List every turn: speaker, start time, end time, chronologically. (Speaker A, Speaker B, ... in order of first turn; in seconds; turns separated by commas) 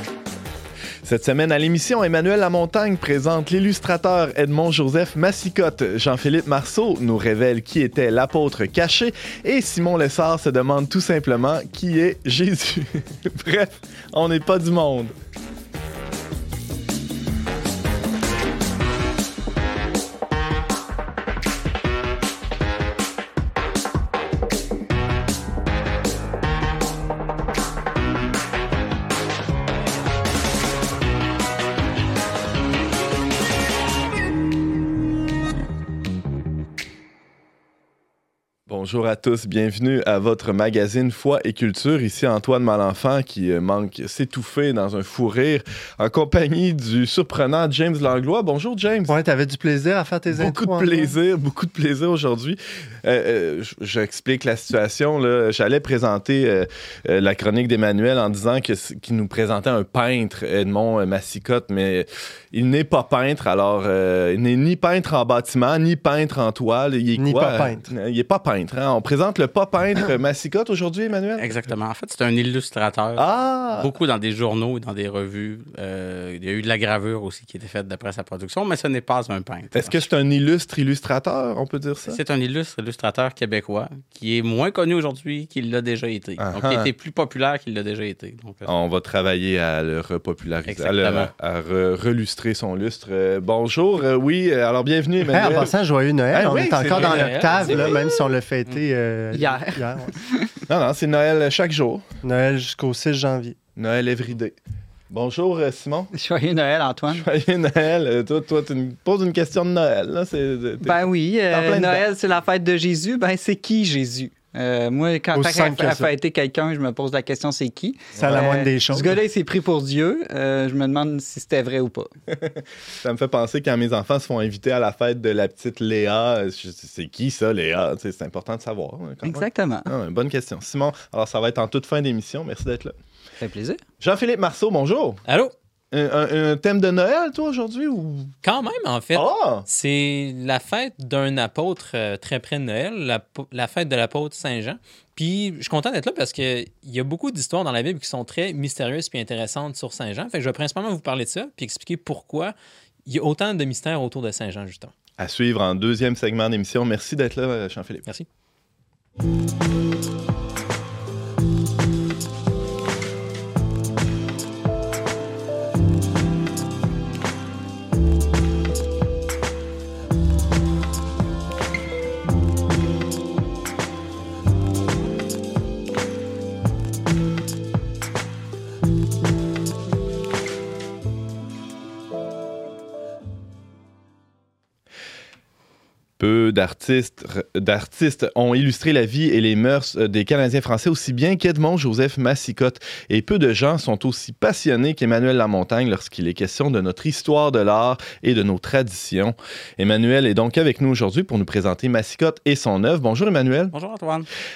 Speaker A: 1.0-15.1, Speaker A: 38.7-49.1, Speaker B: 49.1-51.1, Speaker A: 50.3-71.6, Speaker B: 67.2-67.9, Speaker C: 71.4-73.2, Speaker A: 73.2-73.8, Speaker B: 73.2-73.6, Speaker C: 73.8-80.0, Speaker A: 79.7-82.2, Speaker C: 82.1-88.7, Speaker A: 86.4-86.9, Speaker A: 88.7-95.7, Speaker C: 90.7-91.3, Speaker B: 95.3-100.1, Speaker A: 96.3-98.1, Speaker D: 96.9-98.0, Speaker E: 99.3-100.5, Speaker A: 100.7-102.0, Speaker B: 102.2-103.5, Speaker A: 103.8-104.5, Speaker A: 105.1-106.1, Speaker E: 106.1-107.2, Speaker A: 107.1-111.0, Speaker E: 110.8-122.1, Speaker A: 111.5-112.0, Speaker B: 115.3-116.1, Speaker B: 118.2-119.2, Speaker A: 118.2-118.4, Speaker A: 122.3-132.9, Speaker E: 129.2-129.9, Speaker E: 133.4-133.8, Speaker A: 134.0-135.2, Speaker D: 135.3-135.5, Speaker A: 135.9-138.3, Speaker D: 138.4-152.5, Speaker A: 139.1-139.7, Speaker D: 153.1-154.9, Speaker A: 155.2-158.0, Speaker A: 186.2-203.7, Speaker C: 203.7-204.3